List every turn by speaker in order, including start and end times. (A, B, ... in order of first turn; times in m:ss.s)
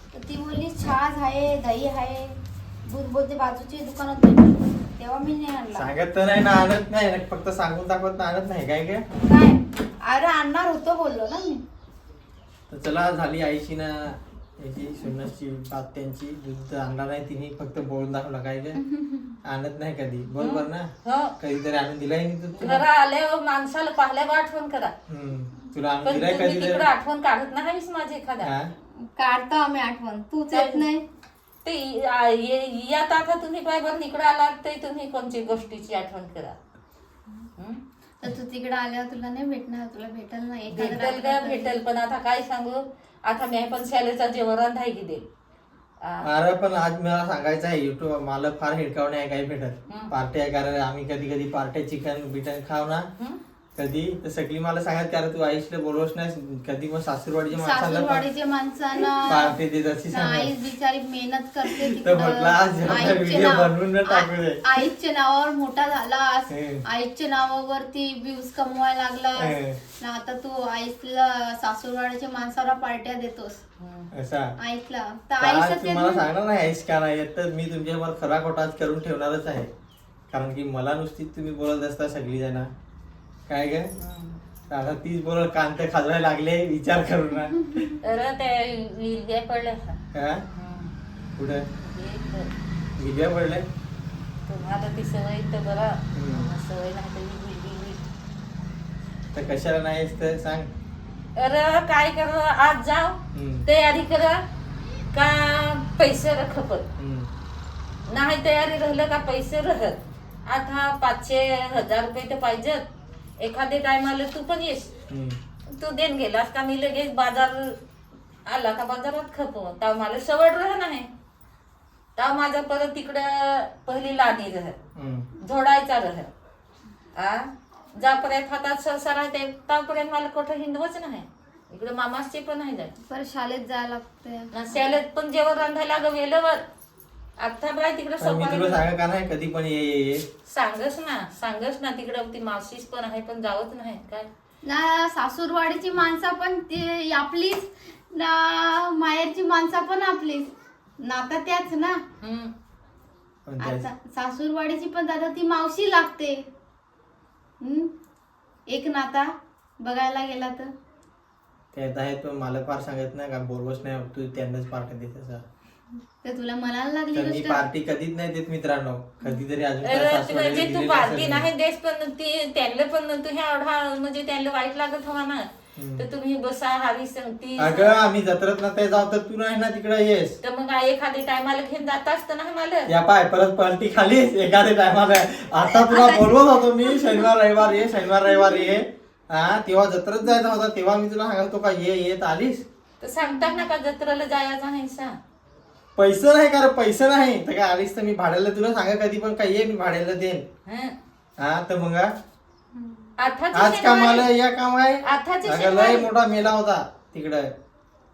0:00.1-0:05.9 A
0:05.7-0:09.0 B
0:09.2-0:11.6 A
0:12.7-0:18.8 B
0:18.8-0:19.4 A
0:19.4-0:22.8 B
0:20.4-0:21.3 C
0:22.6-0:24.9 C
0:25.1-0:26.9 B
0:26.0-0:28.5 C
0:28.4-0:28.7 B
0:29.0-0:31.0 A
0:30.5-0:30.8 C
0:31.6-0:36.6 C
0:38.2-0:41.8 A
0:40.7-0:45.2 C
0:46.2-0:53.1 B
0:53.8-0:58.2 B
0:57.5-0:59.5 A
0:59.2-1:00.6 B
1:00.1-1:13.6 A
1:01.7-1:04.6 B
1:06.5-1:06.8 B
1:09.4-1:09.8 B
1:13.8-1:14.1 C
1:14.1-1:14.5 B
1:14.6-1:16.2 A
1:15.4-1:19.7 B
1:20.3-1:22.7 B
1:23.5-1:23.9 B
1:24.0-1:24.4 C
1:24.7-1:27.9 B
1:28.0-1:30.0 C
1:30.1-1:30.4 B
1:30.5-1:30.9 C
1:31.4-1:31.6 B
1:31.8-1:32.5 C
1:33.0-1:33.6 B
1:34.5-1:38.0 C
1:36.1-1:36.5 B
1:39.3-1:40.7 B
1:41.4-1:44.4 C
1:43.3-1:43.6 B
1:45.1-1:46.8 C
1:47.0-1:47.3 B
1:48.1-1:52.8 C
1:53.4-1:54.9 C
1:55.1-1:55.4 B
1:55.7-1:57.8 C
1:58.4-2:01.1 C
2:02.2-2:04.8 C
2:04.9-2:05.3 B
2:05.4-2:06.3 C
2:07.2-2:12.9 C
2:13.1-2:14.9 A
2:14.5-2:16.6 C
2:17.4-2:18.8 C
2:18.2-2:20.2 B
2:20.5-2:24.3 C
2:24.6-2:32.0 A
2:32.2-2:32.5 C
2:33.4-2:33.9 B
2:33.6-2:36.4 A
2:37.6-2:37.9 A
2:38.7-2:40.7 A
2:41.7-2:45.4 B
2:46.2-2:47.6 A
2:47.1-2:51.5 B
2:49.8-2:58.0 C
2:55.8-2:56.0 B
2:57.6-3:00.4 B
3:00.4-3:02.9 C
3:02.9-3:12.6 B
3:13.0-3:15.2 C
3:13.2-3:13.6 A
3:16.0-3:20.4 B
3:20.7-3:20.9 C
3:21.4-3:22.1 B
3:22.7-3:23.1 A
3:23.2-3:24.3 C
3:23.5-3:27.5 B
3:25.0-3:26.1 C